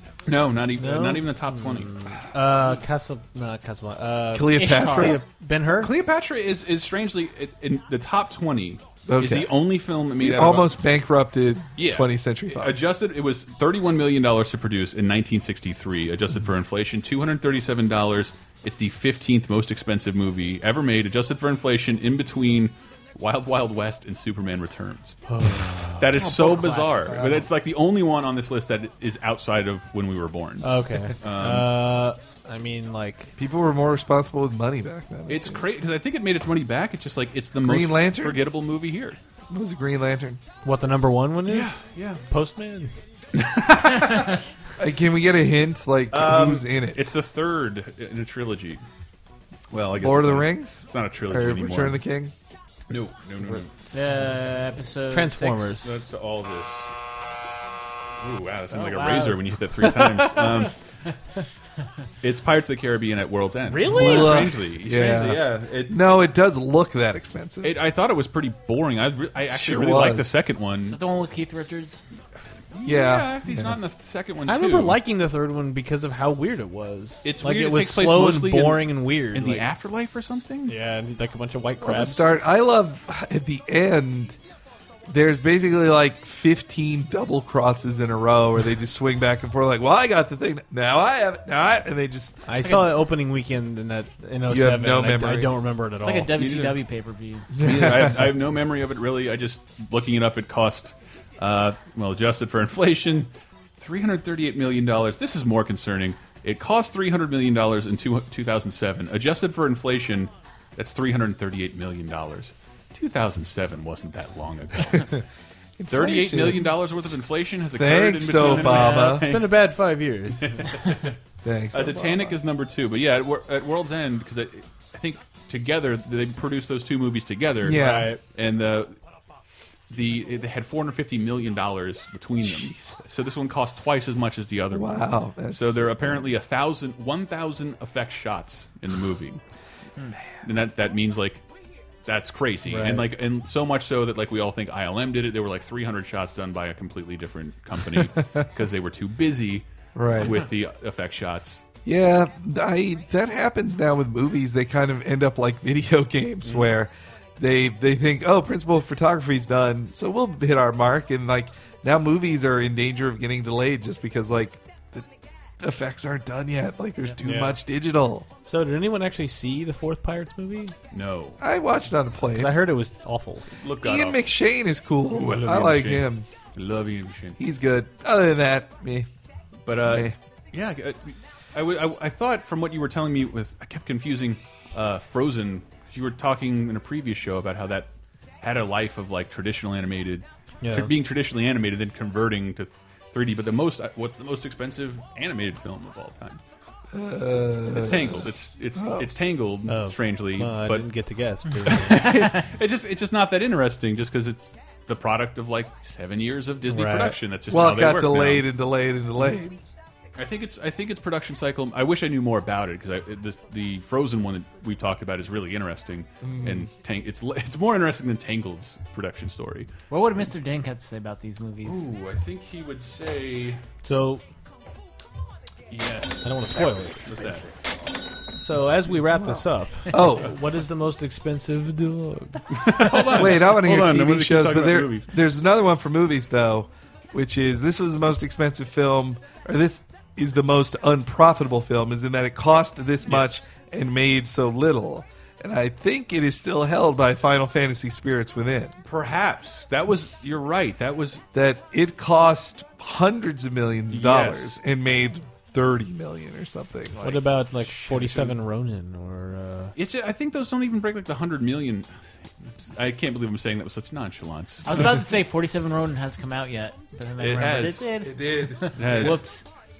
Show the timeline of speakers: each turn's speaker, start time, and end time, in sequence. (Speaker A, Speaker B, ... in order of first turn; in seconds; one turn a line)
Speaker A: 0.3-2.0
Speaker B: 0.8-5.9
Speaker C: 4.3-5.2
Speaker D: 4.5-5.2
Speaker A: 5.8-10.8
Speaker C: 9.1-9.6
Speaker C: 10.1-12.8
Speaker A: 11.8-25.2
Speaker B: 25.3-26.3
Speaker A: 26.0-31.8
Speaker D: 26.2-27.0
Speaker C: 27.1-27.5
Speaker B: 30.6-33.3
Speaker C: 33.4-35.7
Speaker A: 35.3-39.2
Speaker C: 37.6-38.5
Speaker C: 39.5-40.4
Speaker B: 40.6-42.9
Speaker A: 41.5-42.2
Speaker A: 43.4-44.4
Speaker C: 44.8-47.2
Speaker A: 46.1-48.8
Speaker A: 49.7-52.0
Speaker C: 50.0-52.3
Speaker A: 52.9-53.7
Speaker D: 53.9-55.8
Speaker B: 55.1-55.9
Speaker A: 55.8-56.9
Speaker A: 58.2-60.8
Speaker D: 58.7-59.5
Speaker B: 59.8-60.4
Speaker A: 62.2-66.0
Speaker B: 63.7-64.5
Speaker C: 63.8-67.8
Speaker A: 67.6-71.0
Speaker C: 69.5-70.4
Speaker D: 70.8-72.0
Speaker A: 72.7-75.0
Speaker C: 72.8-73.8
Speaker B: 74.5-79.7
Speaker A: 77.2-80.8
Speaker B: 80.7-82.3
Speaker C: 81.8-84.4
Speaker C: 85.1-92.5
Speaker B: 92.5-96.3
Speaker D: 92.6-93.0
Speaker C: 94.5-95.6
Speaker D: 96.0-97.5
Speaker A: 96.3-96.8
Speaker C: 97.5-98.3
Speaker A: 97.6-115.2
Speaker C: 115.8-116.8
Speaker A: 115.9-119.7
Speaker C: 117.7-119.4
Speaker B: 118.8-120.7
Speaker A: 120.4-121.2
Speaker C: 121.4-122.4
Speaker A: 121.7-129.0
Speaker C: 127.6-128.2
Speaker B: 127.7-128.2
Speaker A: 129.9-139.4
Speaker C: 132.4-133.0
Speaker C: 134.7-136.2
Speaker A: 140.3-141.4
Speaker A: 142.1-151.6
Speaker B: 142.7-143.1
Speaker C: 150.0-150.4
Speaker C: 151.8-165.1
Speaker A: 156.4-156.7
Speaker C: 165.6-168.3
Speaker B: 167.2-167.6
Speaker B: 168.4-170.7
Speaker A: 170.9-171.4
Speaker C: 171.4-172.7
Speaker B: 172.3-173.5
Speaker A: 173.6-174.3
Speaker C: 173.8-176.3
Speaker A: 175.2-177.4
Speaker C: 177.4-179.1
Speaker A: 179.7-196.4
Speaker C: 179.8-180.1
Speaker B: 190.6-190.9
Speaker C: 196.9-199.1
Speaker A: 197.7-200.9
Speaker B: 199.7-202.1
Speaker A: 201.6-208.5
Speaker B: 206.7-207.2
Speaker C: 207.5-209.6
Speaker A: 210.2-219.7
Speaker C: 216.2-216.7
Speaker D: 219.9-221.9
Speaker A: 221.6-223.6
Speaker B: 223.8-224.2
Speaker A: 225.7-227.5
Speaker B: 226.2-227.1
Speaker B: 228.4-233.0
Speaker C: 229.1-230.3
Speaker A: 232.5-235.1
Speaker C: 233.1-248.8
Speaker A: 248.8-251.2
Speaker C: 251.3-257.3
Speaker A: 253.9-254.6
Speaker B: 257.0-259.7
Speaker A: 257.6-258.4
Speaker A: 259.8-261.9
Speaker A: 262.6-265.1
Speaker D: 264.6-269.4
Speaker A: 267.2-268.1
Speaker C: 267.9-269.2
Speaker A: 268.8-269.3